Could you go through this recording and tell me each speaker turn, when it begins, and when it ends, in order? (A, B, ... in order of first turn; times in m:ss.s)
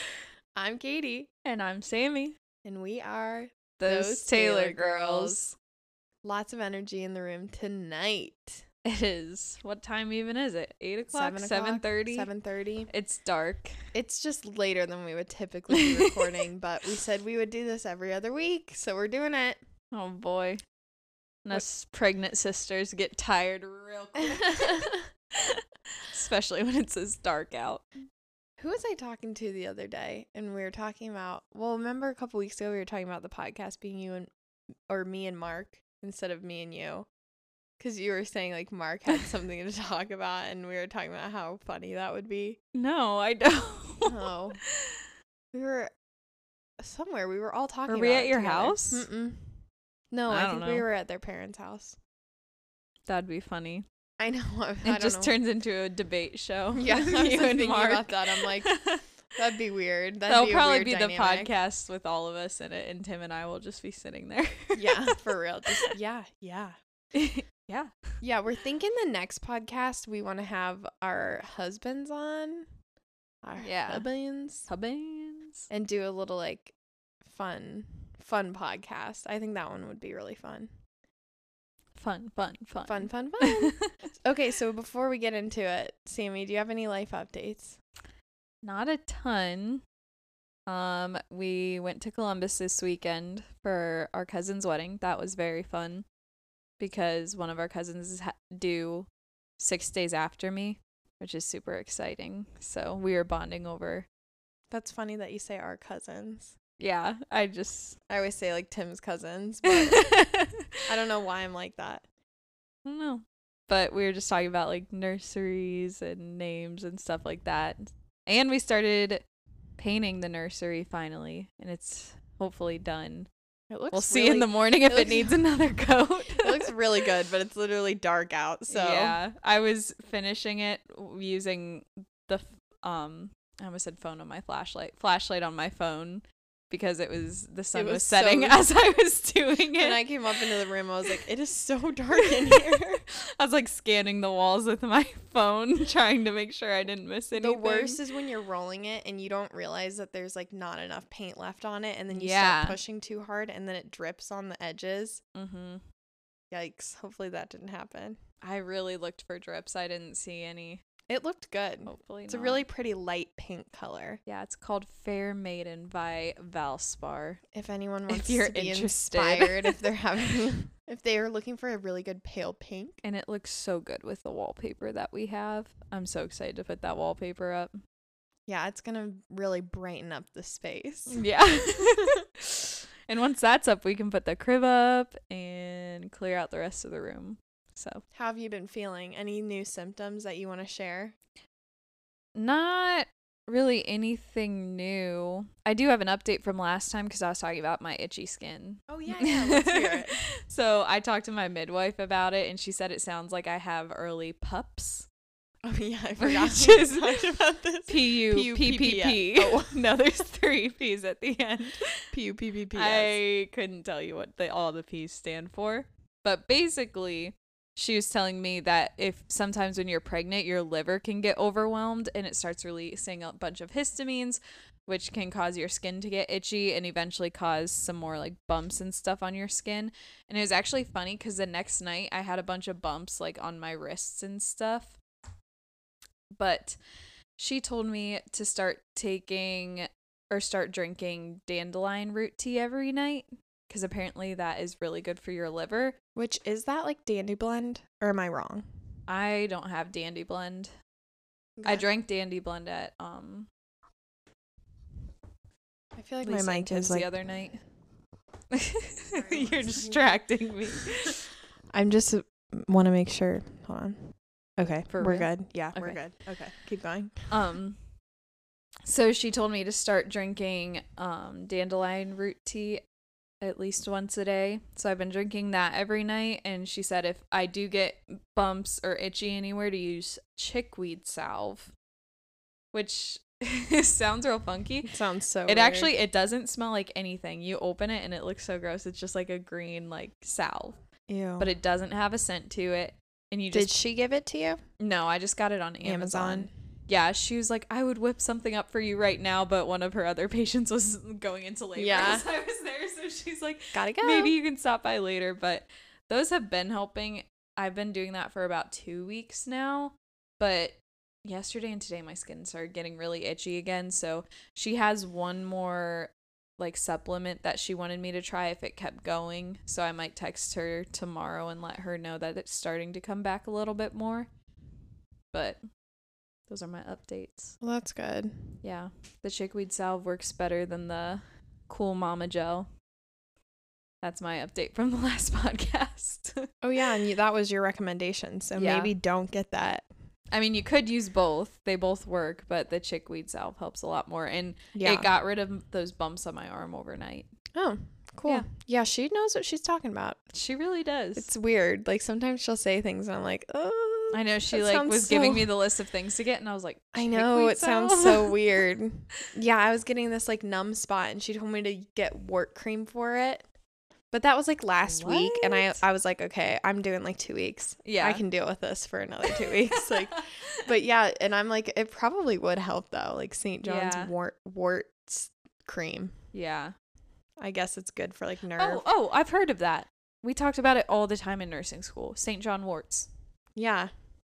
0:00.6-0:01.3 A
0:01.4-0:02.4 B
0:02.6-0:05.4 A
0:03.8-0:05.5 B
0:06.2-0:08.6 A
0:08.8-0:12.3 B
0:11.1-0:12.9 A
0:12.9-0:13.7 B
0:13.9-0:19.6 A
0:15.7-0:16.4 B
0:19.9-0:20.6 B
0:21.4-0:27.8 B
0:24.3-0:25.0 A
0:28.6-0:34.3 A
0:34.9-0:37.1 A
0:37.8-0:42.6 A
0:42.7-0:45.1 B
0:44.0-0:44.6 A
0:45.5-0:45.9 A
0:46.8-0:52.0 A
0:47.9-0:49.0 B
0:50.3-0:50.8 B
0:53.1-0:53.8 B
0:54.2-0:55.3 A
0:54.8-0:59.0 B
0:56.7-0:58.8 A
0:59.3-1:01.5 A
1:00.3-1:05.2 B
1:04.7-1:06.8 A
1:07.1-1:08.0 B
1:08.2-1:12.7 A
1:13.4-1:14.7 A
1:13.6-1:14.0 B
1:14.7-1:15.7 B
1:15.7-1:16.7 A
1:17.2-1:20.7 A
1:21.9-1:23.9 B
1:22.8-1:27.8 A
1:28.6-1:29.8 B
1:30.7-1:36.0 B
1:36.8-1:39.1 B
1:39.6-1:44.1 B
1:44.7-1:46.5 A
1:46.8-1:48.0 B
1:48.1-1:50.1 A
1:49.6-1:50.8 B
1:50.8-1:52.0 A
1:52.8-1:59.2 B
1:59.8-2:03.3 B
2:03.7-2:05.4 A
2:03.9-2:06.7 B
2:06.4-2:09.2 A
2:08.7-2:20.0 B
2:17.7-2:18.6 A
2:19.8-2:23.0 A
2:22.2-2:28.0 B
2:27.4-2:35.2 A
2:32.1-2:32.8 B
2:35.3-2:35.8 B
2:36.5-2:38.2 A
2:38.4-2:40.8 B
2:41.1-2:44.2 A
2:41.8-2:42.6 B
2:44.3-2:47.4 B
2:47.5-2:53.0 A
2:48.1-2:49.8 B
2:53.0-2:57.8 B
2:58.5-3:02.1 A
3:01.1-3:08.0 B
3:08.1-3:11.2 A
3:12.3-3:25.1 B
3:18.9-3:20.2 A
3:25.6-3:29.9 A
3:26.2-3:27.2 B
3:27.9-3:32.0 B
3:32.1-3:33.2 A
3:32.7-3:55.0 B
3:56.4-3:56.8 B
3:57.4-4:06.0 B
4:06.1-4:08.6 A
4:09.1-4:10.7 B
4:11.6-4:11.8 A
4:11.6-4:13.5 B
4:15.9-4:17.1 A
4:16.2-4:17.6 B
4:18.5-4:21.2 B
4:19.1-4:20.0 A
4:21.7-4:27.2 A
4:24.9-4:26.0 B
4:27.3-4:27.8 B
4:28.8-4:32.8 B
4:33.4-4:41.7 B
4:42.7-4:44.9 B
4:44.8-4:45.9 A
4:45.5-4:50.8 B
4:51.1-4:51.5 A
4:51.4-4:53.8 B
4:53.5-4:54.6 A
4:54.8-5:24.3 B
4:55.8-4:56.5 A
5:01.8-5:02.2 A
5:03.7-5:04.3 A
5:25.3-5:25.6 B
5:26.5-5:27.5 B
5:27.6-5:28.5 A
5:28.6-5:32.7 B
5:34.0-5:36.5 B
5:36.6-5:39.8 A
5:38.6-5:38.9 B
5:40.3-5:47.3 B
5:44.7-5:45.1 A
5:47.5-5:50.2 A
5:50.3-5:51.3 B
5:51.2-5:55.5 A
5:54.1-5:58.4 B
5:56.9-6:03.5 A
6:04.1-6:16.1 A
6:04.8-6:05.8 B
6:07.8-6:08.2 B
6:09.3-6:10.2 B
6:13.6-6:14.1 B
6:16.3-6:16.7 B
6:17.4-6:18.8 A
6:18.6-6:23.1 B
6:23.6-6:23.9 A